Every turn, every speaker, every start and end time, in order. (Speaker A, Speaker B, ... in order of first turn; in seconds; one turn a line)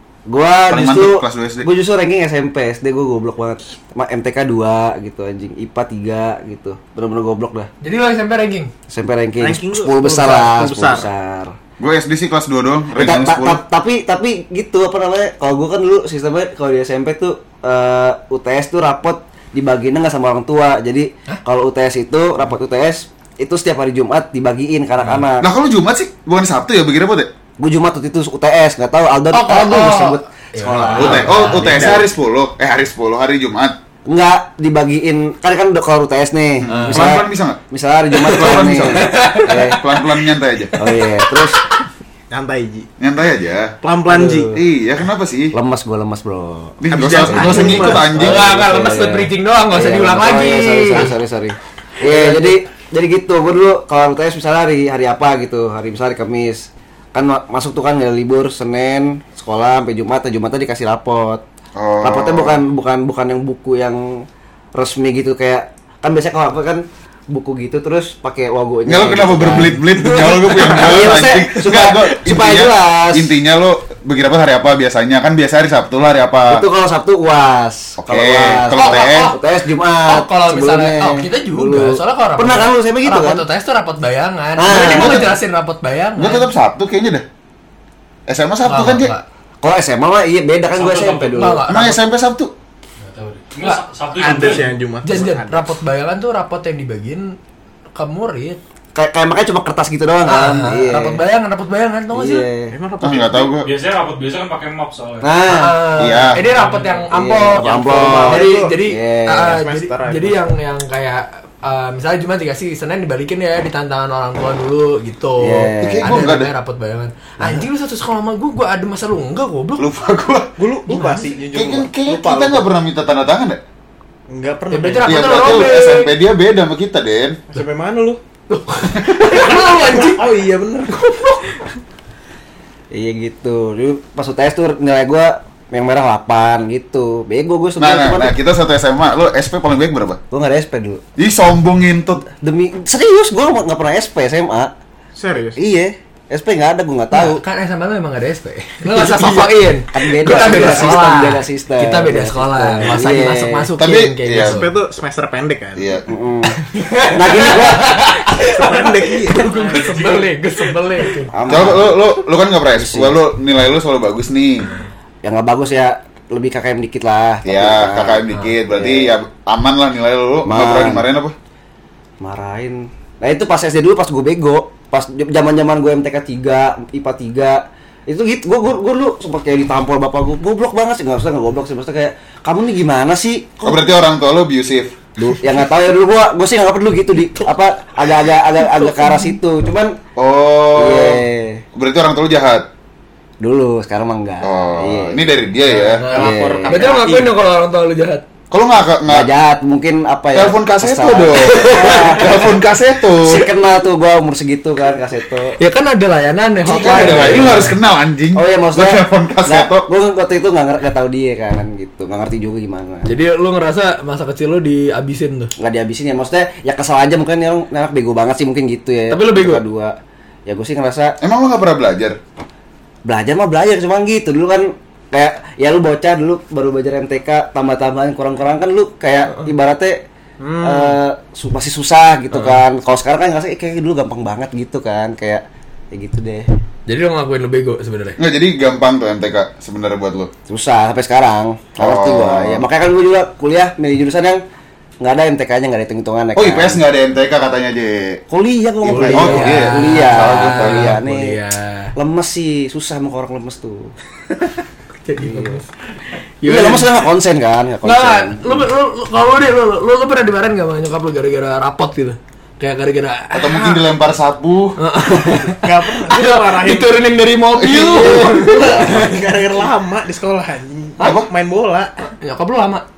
Speaker A: 0.2-7.7
Speaker B: 0.7-1.7
Speaker C: 7.8-8.7
Speaker A: 8.9-11.5
Speaker D: 9.4-11.1
Speaker B: 11.8-13.6
Speaker A: 12.9-25.5
Speaker B: 25.4-27.3
Speaker A: 27.6-32.0
Speaker C: 29.3-31.9
Speaker B: 30.9-33.8
Speaker D: 31.1-32.1
Speaker A: 34.1-39.8
Speaker B: 36.6-37.6
Speaker C: 36.7-37.2
Speaker B: 38.2-40.8
Speaker C: 38.2-41.8
Speaker A: 40.8-41.6
Speaker D: 42.3-42.9
Speaker B: 43.0-43.7
Speaker D: 43.8-44.6
Speaker A: 44.1-44.6
Speaker B: 44.5-45.5
Speaker A: 45.5-61.4
Speaker B: 46.8-48.5
Speaker D: 46.9-48.1
Speaker C: 47.4-51.1
Speaker D: 52.1-52.5
Speaker B: 61.7-62.6
Speaker A: 62.0-73.3
Speaker B: 68.8-76.7
Speaker A: 76.4-83.4
Speaker B: 78.0-79.3
Speaker C: 78.7-79.4
Speaker C: 80.0-86.5
Speaker A: 84.6-85.3
Speaker B: 84.7-85.3
Speaker B: 86.2-87.2
Speaker B: 88.3-89.1
Speaker C: 88.6-89.2
Speaker A: 89.6-91.6
Speaker E: 90.7-91.5
Speaker C: 91.3-92.0
Speaker B: 91.7-92.5
Speaker E: 93.0-94.7
Speaker C: 93.6-94.5
Speaker D: 94.2-95.7
Speaker C: 95.0-97.4
Speaker C: 98.0-98.6
Speaker A: 98.9-101.2
Speaker C: 100.2-102.5
Speaker A: 102.1-102.7
Speaker D: 102.7-103.5
Speaker B: 103.0-103.7
Speaker E: 103.6-105.6
Speaker A: 105.2-106.1
Speaker C: 105.5-120.0
Speaker B: 105.9-106.4
Speaker E: 106.7-107.1
Speaker A: 107.1-109.6
Speaker D: 107.6-108.7
Speaker D: 109.4-110.4
Speaker A: 115.4-116.2
Speaker B: 115.8-116.5
Speaker B: 119.8-120.5
Speaker D: 120.6-122.7
Speaker C: 120.9-121.2
Speaker B: 121.5-123.6
Speaker D: 124.3-125.7
Speaker C: 124.7-126.1
Speaker B: 125.0-127.4
Speaker D: 127.5-128.2
Speaker C: 128.5-130.2
Speaker D: 129.1-131.3
Speaker C: 130.9-131.4
Speaker A: 132.9-138.3
Speaker B: 137.8-140.2
Speaker A: 140.3-141.0
Speaker B: 141.2-142.2
Speaker A: 142.2-144.7
Speaker D: 145.1-145.6
Speaker A: 145.6-147.4
Speaker C: 147.1-154.7
Speaker A: 148.9-153.7
Speaker B: 150.4-150.9
Speaker B: 153.8-154.6
Speaker D: 154.3-156.0
Speaker B: 155.8-156.1
Speaker A: 156.1-158.1
Speaker C: 156.6-161.4
Speaker D: 158.3-160.2
Speaker E: 159.7-160.0
Speaker A: 161.3-162.2
Speaker B: 161.5-164.7
Speaker A: 162.7-163.2
Speaker A: 165.2-169.1
Speaker B: 167.4-171.3
Speaker A: 170.4-171.1
Speaker A: 172.2-183.8
Speaker B: 183.6-185.0
Speaker A: 185.2-190.0
Speaker C: 188.6-189.3
Speaker B: 190.2-191.2
Speaker A: 190.7-191.6
Speaker B: 191.7-192.7
Speaker A: 193.4-195.3
Speaker B: 194.4-196.2
Speaker C: 195.8-198.2
Speaker A: 196.1-197.3
Speaker D: 196.1-197.2
Speaker B: 198.5-199.3
Speaker A: 199.1-202.6
Speaker B: 200.3-203.5
Speaker C: 201.4-202.2
Speaker A: 203.1-205.6
Speaker C: 205.6-207.8
Speaker B: 206.6-209.8
Speaker A: 206.7-207.7
Speaker A: 208.3-213.1
Speaker C: 213.1-215.5
Speaker A: 215.6-219.9
Speaker C: 219.1-219.6
Speaker A: 220.4-221.2
Speaker B: 221.2-222.2
Speaker A: 223.0-230.0
Speaker D: 230.4-231.0
Speaker A: 230.6-236.5
Speaker C: 236.9-238.2
Speaker B: 238.2-240.3
Speaker A: 240.5-244.4
Speaker B: 241.8-242.6
Speaker A: 245.0-246.8
Speaker B: 246.3-248.2
Speaker A: 248.3-251.4
Speaker B: 248.8-251.0
Speaker C: 248.8-251.9
Speaker A: 251.9-253.9
Speaker C: 255.0-255.7
Speaker A: 255.2-255.6
Speaker C: 256.4-257.0
Speaker A: 256.4-258.7
Speaker C: 257.8-263.7
Speaker B: 263.3-264.8
Speaker D: 263.6-263.8
Speaker C: 264.8-269.2
Speaker D: 265.4-267.1
Speaker B: 267.6-269.1
Speaker D: 267.7-271.9
Speaker B: 271.0-271.3
Speaker C: 272.2-272.8